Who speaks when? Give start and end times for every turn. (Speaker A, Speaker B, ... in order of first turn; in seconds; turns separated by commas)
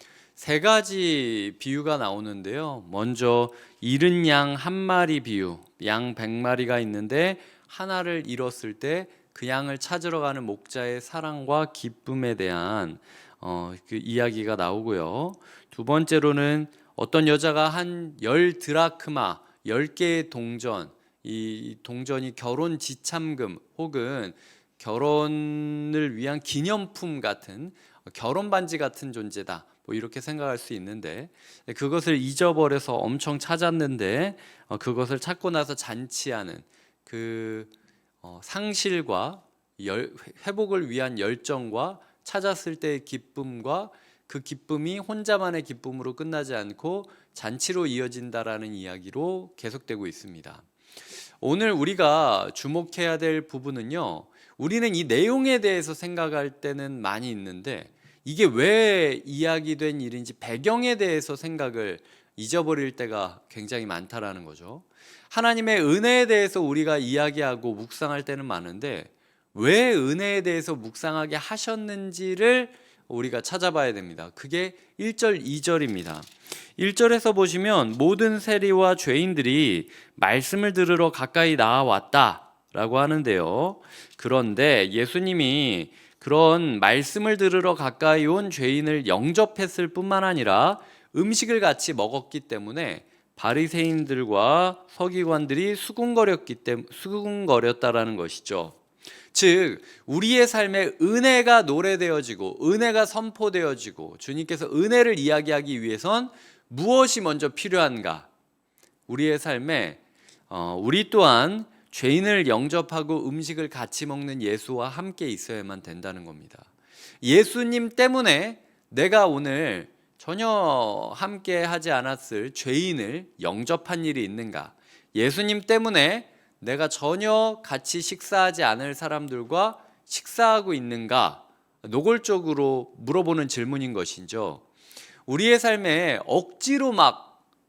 Speaker A: 0.3-37.7, Speaker A: 38.2-50.6, Speaker A: 51.4-98.8, Speaker A: 99.3-108.3, Speaker A: 109.1-116.7, Speaker A: 117.2-134.6, Speaker A: 135.3-137.3